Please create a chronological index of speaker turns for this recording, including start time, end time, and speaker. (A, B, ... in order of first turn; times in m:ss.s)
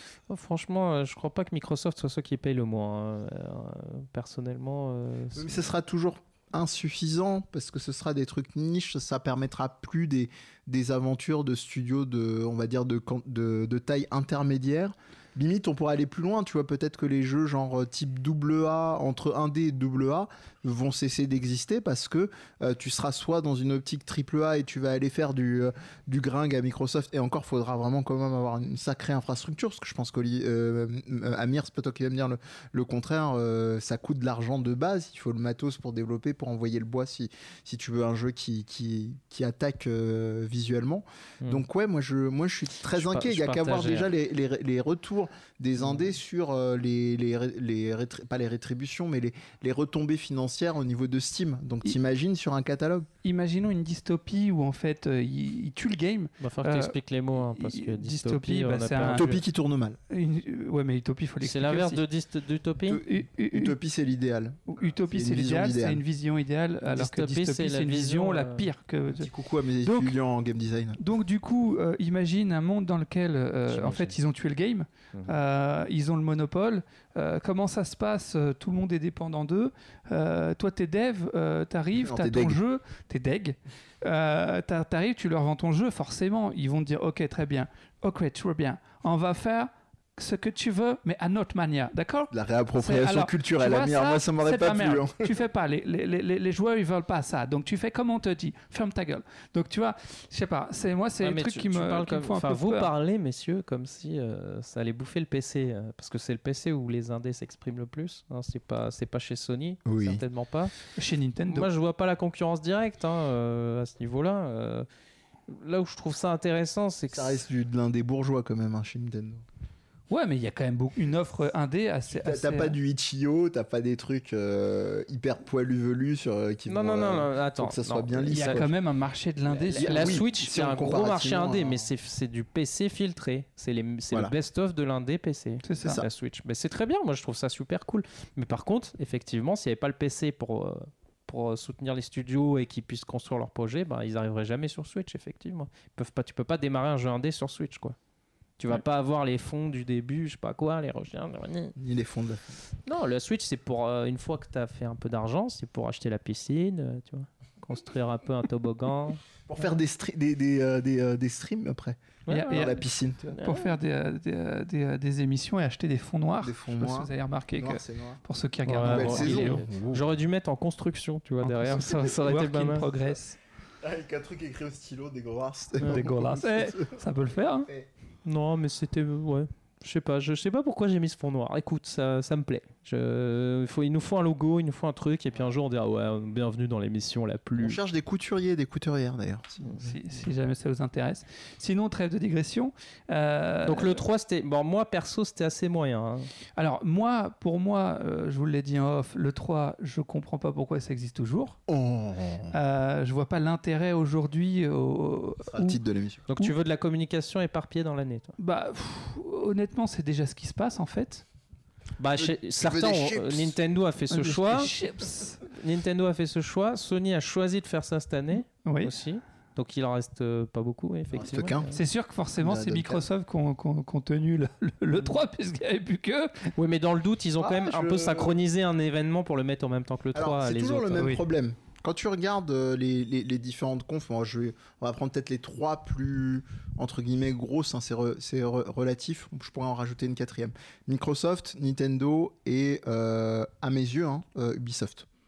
0:00.3-0:05.6 A
0:05.4-0:53.1 B
0:42.9-0:44.1 A
0:53.2-0:59.3 C
0:56.4-0:59.4 A
0:59.1-1:00.0 B
1:00.1-1:02.0 C
1:01.4-1:03.0 A
1:02.9-1:06.0 B
1:02.9-1:03.8 C
1:04.7-1:09.3 C
1:06.8-1:08.7 A
1:09.1-1:11.0 B
1:09.8-1:10.2 C
1:11.0-1:42.9 C
1:13.7-1:14.2 A
1:22.0-1:22.6 B
1:32.3-1:35.3 B
1:41.2-1:50.7 A
1:49.9-1:50.2 B
1:51.0-1:51.7 C
1:51.5-1:54.9 A
1:55.5-1:57.4 A
1:57.1-1:59.4 B
2:00.1-2:02.8 C
2:02.1-2:08.7 B
2:06.7-2:08.7 A
2:08.3-2:10.2 C
2:09.6-2:28.0 A
2:09.8-2:11.9 B
2:15.6-2:16.0 C
2:28.6-2:31.8 A
2:31.8-2:32.4 B
2:32.9-2:39.2 A
2:39.5-2:43.4 B
2:42.3-2:42.7 A
2:42.3-2:42.8 C
2:43.3-2:43.7 A
2:43.4-2:49.6 C
2:46.4-2:48.2 B
2:48.7-2:52.9 A
2:48.8-2:50.0 B
2:51.4-2:53.4 C
2:53.8-2:57.0 B
2:55.9-2:57.7 C
2:58.2-3:07.8 A
3:07.6-3:10.0 B
3:09.7-3:14.0 C
3:13.7-3:16.3 A
3:16.6-3:21.6 C
3:21.7-3:22.6 B
3:22.5-3:25.8 C
3:25.5-3:26.2 B
3:26.3-3:28.4 A
3:28.4-3:31.2 C
3:32.0-3:34.7 A
3:32.2-3:33.6 B
3:34.1-3:35.4 C
3:35.5-3:41.8 A
3:38.6-3:38.9 C
3:41.1-3:41.7 B
3:41.7-3:46.5 C
3:42.4-3:43.0 B
3:46.6-3:51.1 A
3:47.4-3:48.4 B
3:50.1-4:05.1 B
3:51.0-3:51.2 C